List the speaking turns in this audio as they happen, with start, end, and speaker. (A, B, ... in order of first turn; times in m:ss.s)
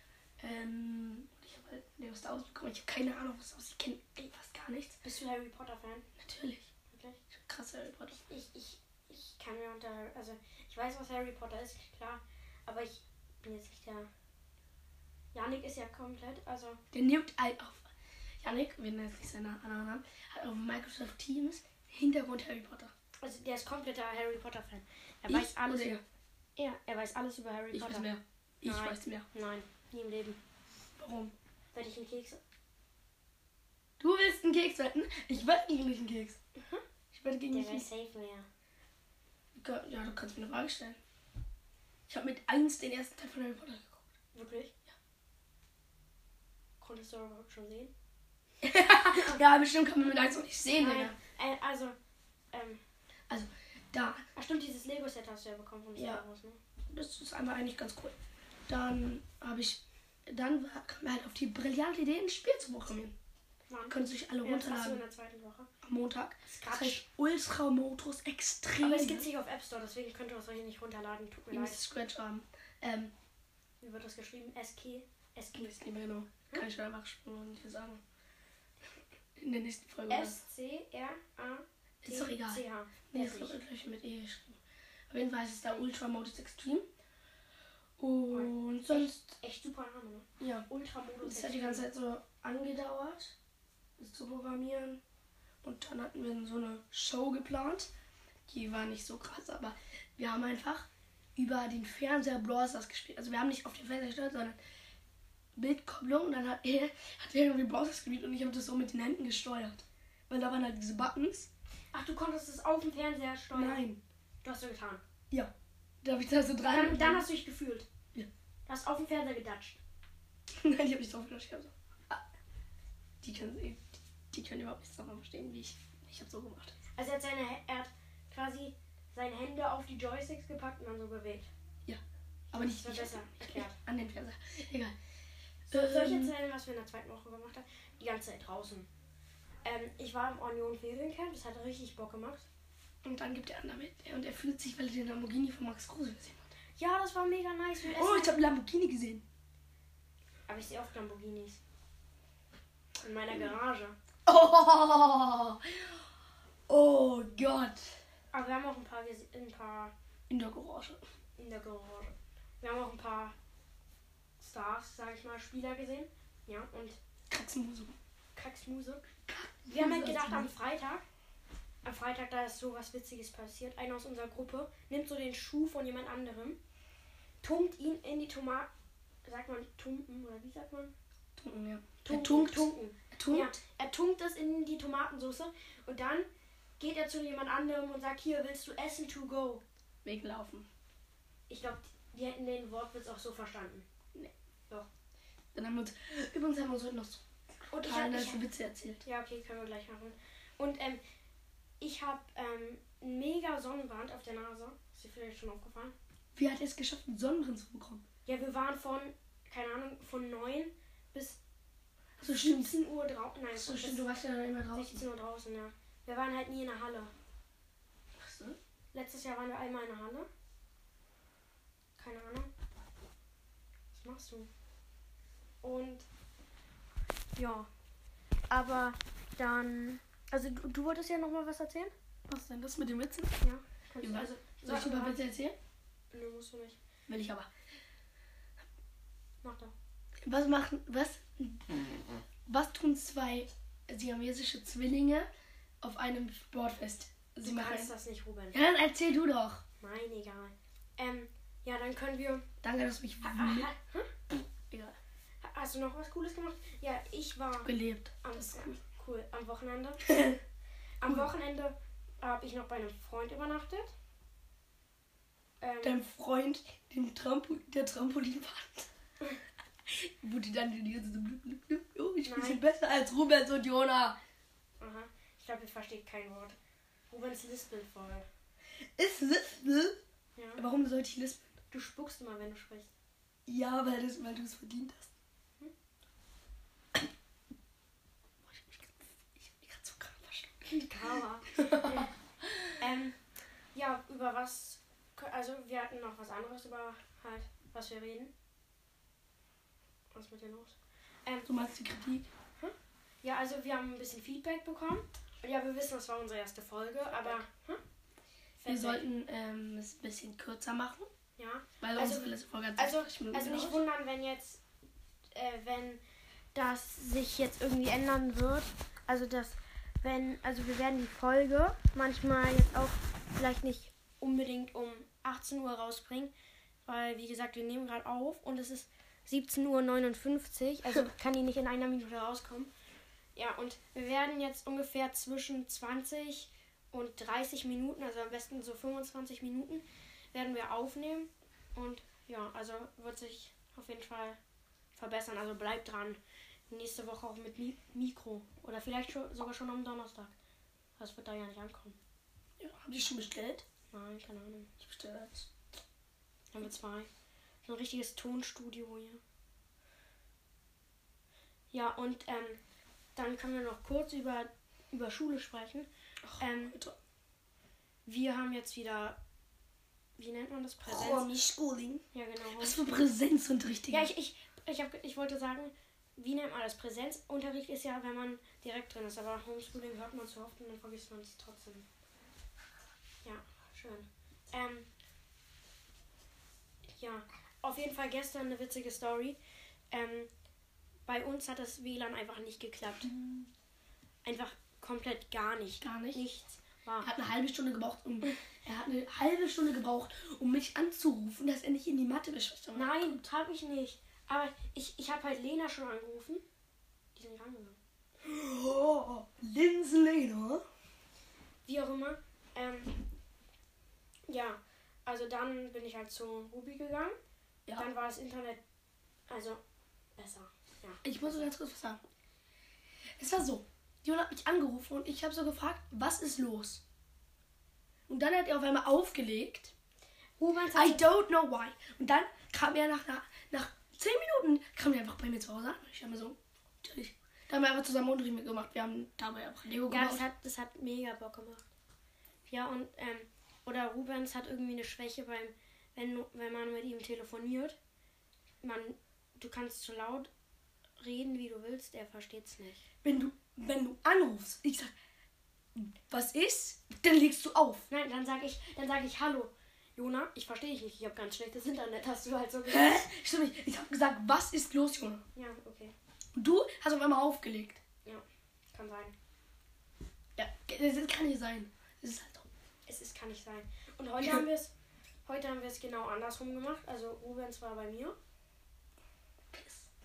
0:00.4-0:05.0 A
0:05.0-0:06.1 B
0:06.2-0:06.7 A
0:06.9-0:07.2 B
0:07.3-0:08.2 A
0:08.2-0:14.1 B
0:15.3-0:16.8 B
0:16.9-0:22.9 A
0:23.2-0:26.0 B
0:25.3-0:26.0 A
0:26.6-0:28.1 B
0:27.7-0:29.2 A
0:28.6-0:30.4 B
0:31.0-0:31.3 A
0:31.7-0:32.4 B
0:34.0-0:36.4 A
0:36.6-0:36.8 B
0:37.1-0:37.9 A
0:37.5-0:38.5 B
0:39.5-0:41.0 A
0:42.1-0:44.1 A
0:44.3-0:44.7 B
0:46.8-0:47.9 B
0:48.6-0:51.1 A
0:49.1-0:49.4 B
0:50.8-0:52.0 B
0:52.5-0:52.8 B
0:53.3-0:54.2 A
0:54.4-0:56.6 B
0:56.0-0:56.2 A
0:56.9-0:58.2 A
0:58.7-1:03.2 A
1:03.7-1:05.7 B
1:03.9-1:05.0 A
1:05.8-1:09.3 A
1:06.4-1:07.0 B
1:08.8-1:11.8 B
1:11.5-1:13.1 A
1:13.8-1:15.8 B
1:15.5-1:18.0 A
1:19.4-1:20.4 A
1:20.1-1:23.6 B
1:22.0-1:24.6 A
1:25.1-1:26.8 A
1:28.0-1:29.2 A
1:28.3-1:31.8 B
1:30.4-1:30.7 A
1:31.2-1:33.3 A
1:34.0-1:35.0 A
1:35.6-1:37.9 A
1:38.5-1:44.6 A
1:45.6-1:51.5 A
1:51.9-1:53.8 B
1:53.5-1:54.0 A
1:54.4-1:55.0 B
1:55.3-1:57.3 A
1:56.7-1:57.9 B
1:58.6-1:59.8 B
2:00.5-2:02.2 A
2:03.2-2:06.8 A
2:07.0-2:11.5 B
2:12.5-2:13.8 B
2:12.5-2:14.9 A
2:15.7-2:16.3 A
2:15.7-2:18.9 B
2:19.6-2:22.5 B
2:23.0-2:26.5 A
2:26.8-2:28.4 B
2:27.8-2:29.2 A
2:30.5-2:31.6 B
2:33.0-2:34.0 B
2:34.2-2:36.0 A
2:36.7-2:38.0 A
2:38.3-2:39.9 B
2:40.3-2:41.0 A
2:41.4-2:43.3 B
2:44.4-2:47.0 B
2:47.3-2:48.0 A
2:48.3-2:49.0 B
2:49.3-2:50.5 A
2:49.7-2:51.0 B
2:51.8-2:56.6 B
2:57.4-2:58.7 B
2:59.2-3:00.9 B
3:01.4-3:03.6 A
3:02.0-3:06.3 B
3:06.8-3:09.6 B
3:10.0-3:10.7 A
3:11.5-3:13.8 B
3:15.5-3:17.2 A
3:17.7-3:18.5 B
3:17.8-3:19.0 A
3:19.0-3:21.0 B
3:21.8-3:25.9 B
3:26.3-3:28.0 A
3:28.2-3:31.4 B
3:32.2-3:32.8 A
3:32.3-3:34.1 B
3:33.5-3:35.0 A
3:34.7-3:37.1 B
3:38.2-3:38.6 A
3:38.9-3:40.3 B
3:42.0-3:42.5 B
3:43.9-3:44.5 B
3:45.6-3:46.1 B
3:47.4-3:47.7 B
3:48.5-3:51.9 B
3:52.3-3:53.4 A
3:53.4-3:55.3 B
3:54.0-3:55.6 A
3:56.1-3:56.8 B
3:57.1-3:57.5 A
3:59.4-3:59.7 B
4:00.2-4:05.3 A
4:05.8-4:07.9 A
4:07.4-4:08.6 B
4:08.5-4:09.6 A
4:09.8-4:12.4 B
4:12.6-4:13.7 A
4:13.2-4:14.1 B
4:14.3-4:15.0 A
4:15.4-4:17.7 B
4:17.6-4:18.8 A
4:18.2-4:20.1 B
4:20.0-4:20.4 A
4:21.0-4:23.9 B
4:21.0-4:21.3 A
4:25.6-4:26.0 B
4:25.8-4:28.9 A
4:29.8-4:34.2 A
4:32.2-4:32.6 B
4:34.8-4:36.6 B
4:37.1-4:38.3 B
4:38.8-4:40.0 A
4:40.4-4:40.6 B
4:40.6-4:41.5 A
4:41.7-4:42.9 B
4:43.4-4:45.1 A
4:48.4-4:50.7 A
4:50.6-4:52.1 B
4:51.5-4:52.8 A
4:52.8-4:53.2 B
4:53.7-4:58.3 B
5:00.1-5:01.5 B
5:01.4-5:02.3 A
5:02.6-5:07.8 B
5:07.2-5:07.4 A
5:08.6-5:09.0 B
5:08.6-5:11.1 A
5:11.4-5:14.6 B
5:11.8-5:13.8 A
5:15.3-5:16.0 B
5:16.5-5:26.3 B
5:26.8-5:32.7 B
5:33.4-5:44.4 B
5:45.0-5:50.3 B
5:51.0-5:52.0 B
5:52.6-5:53.6 A
5:53.9-5:54.7 B
5:54.8-5:55.5 A
5:56.5-5:57.1 B
5:57.6-5:59.2 B
6:01.7-6:02.6 B
6:03.2-6:05.9 B
6:06.2-6:07.0 A
6:06.4-6:06.8 B
6:08.0-6:09.2 B
6:10.2-6:11.2 B
6:10.8-6:12.0 A
6:12.1-6:12.9 B
6:12.6-6:14.1 A
6:13.9-6:21.8 B
6:23.2-6:24.9 B
6:26.9-6:29.4 B
6:29.9-6:30.3 B
6:31.1-6:33.1 B
6:33.1-6:33.5 A
6:34.2-6:37.1 B
6:35.8-6:36.2 A
6:37.0-6:43.2 A
6:42.7-6:46.4 B
6:47.1-6:47.8 B
6:48.2-6:50.6 A
6:51.6-6:52.9 B
6:54.3-6:57.2 B
6:57.8-6:58.6 B
6:59.3-6:59.6 B
7:00.2-7:01.5 B
7:01.0-7:02.0 A
7:03.2-7:06.8 A
7:08.1-7:09.7 A
7:10.4-7:11.0 B
7:10.7-7:20.2 A
7:19.9-7:21.6 B
7:22.5-7:27.8 B
7:28.6-7:30.3 B
7:31.0-7:32.8 B
7:33.0-7:34.9 A
7:35.7-7:37.9 A
7:37.9-7:43.0 B
7:42.7-7:45.2 A
7:45.3-7:45.9 B
7:46.3-7:47.8 A
7:48.0-7:49.1 B
7:50.4-7:52.5 A
7:52.8-7:54.7 B
7:55.2-7:58.2 B
7:59.5-7:59.9 A